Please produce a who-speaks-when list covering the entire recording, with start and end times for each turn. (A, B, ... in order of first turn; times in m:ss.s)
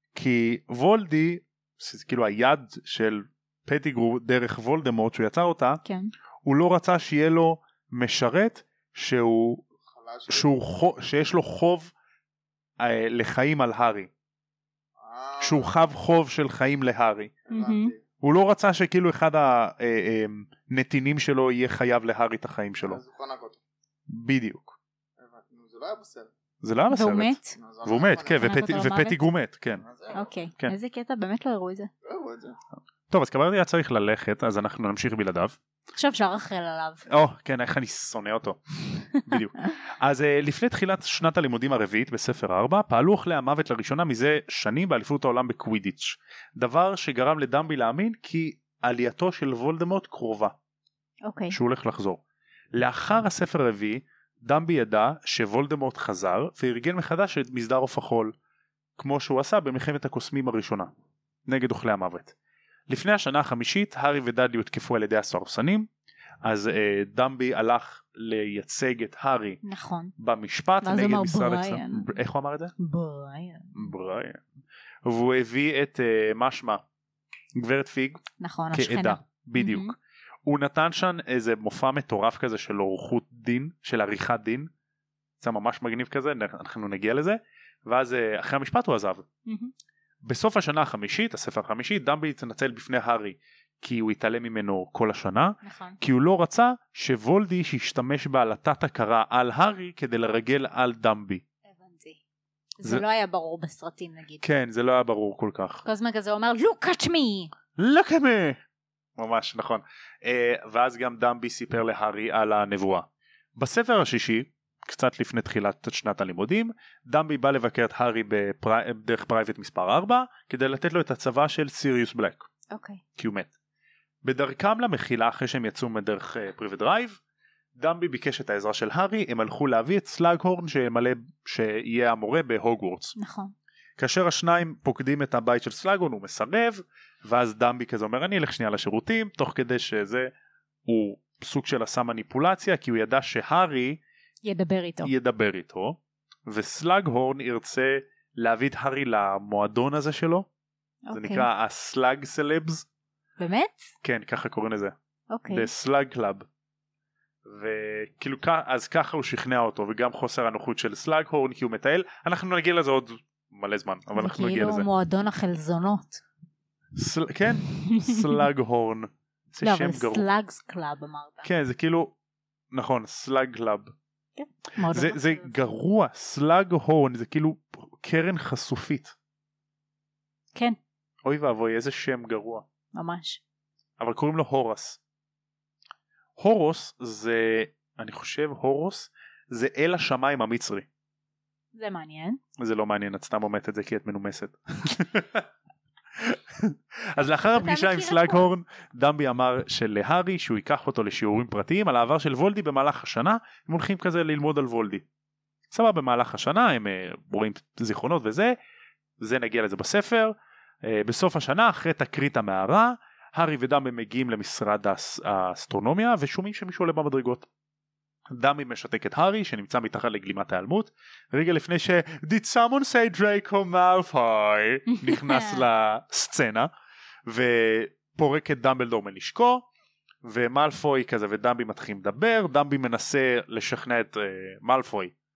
0:00.1-0:05.8 A
0:05.8-0:06.1 B
0:06.4-0:09.7 A
0:09.8-0:10.6 C
0:10.3-0:11.9 A
0:12.8-0:14.1 A
0:15.0-0:15.7 C
0:15.4-0:17.4 A
0:17.5-0:18.0 C
0:17.5-0:17.9 B
0:18.2-0:23.0 A
0:22.8-0:23.6 C
0:24.1-0:24.8 A
0:25.2-0:26.3 C
0:26.6-0:29.8 A
0:26.9-0:27.6 B
0:27.6-0:28.6 C
0:28.4-0:29.2 B
0:29.8-0:30.3 C
0:30.1-0:31.9 B
0:32.0-0:32.6 C
0:33.1-0:35.6 A
0:36.0-0:37.0 B
0:37.1-0:50.5 A
0:51.2-0:51.6 B
0:51.5-0:52.2 A
0:52.7-0:58.3 A
0:59.0-1:00.9 A
1:01.4-1:02.3 A
1:02.9-1:05.9 A
1:06.4-1:09.6 A
1:09.6-1:10.1 B
1:10.2-1:12.7 A
1:10.8-1:12.2 B
1:12.8-1:13.8 B
1:13.7-1:14.4 A
1:15.0-1:16.8 A
1:17.6-1:24.7 A
1:18.4-1:19.9 B
1:25.4-1:29.3 A
1:29.4-1:29.7 B
1:30.2-1:41.4 A
1:35.6-1:36.0 B
1:41.7-1:42.2 B
1:42.8-1:44.4 B
1:44.4-1:45.8 A
1:45.8-1:47.5 B
1:47.8-1:48.6 A
1:49.2-2:02.5 A
2:02.7-2:03.0 B
2:03.2-2:03.5 A
2:04.2-2:07.2 A
2:07.8-2:13.1 A
2:13.2-2:13.5 B
2:14.0-2:20.3 A
2:20.9-2:24.0 A
2:24.4-2:25.1 B
2:25.0-2:30.5 A
2:31.1-2:31.5 B
2:31.1-2:32.9 A
2:33.4-2:33.9 B
2:34.0-2:35.0 A
2:35.3-2:35.7 B
2:35.5-2:36.4 A
2:37.4-2:44.9 A
2:44.2-2:46.2 B
2:47.0-2:50.2 A
2:47.9-2:48.4 B
2:49.6-2:51.5 B
2:51.4-2:52.1 A
2:52.7-2:53.9 A
2:54.4-2:55.6 B
2:54.9-2:59.1 A
3:01.2-3:02.7 A
3:02.9-3:03.4 B
3:04.0-3:05.0 A
3:06.4-3:10.9 A
3:11.7-3:12.4 B
3:12.6-3:15.4 A
3:16.2-3:25.0 A
3:17.2-3:18.4 B
3:25.7-3:28.6 A
3:29.2-3:37.5 A
3:38.3-3:46.7 A
3:44.9-3:45.6 B
3:47.3-3:49.7 A
3:50.2-3:55.1 A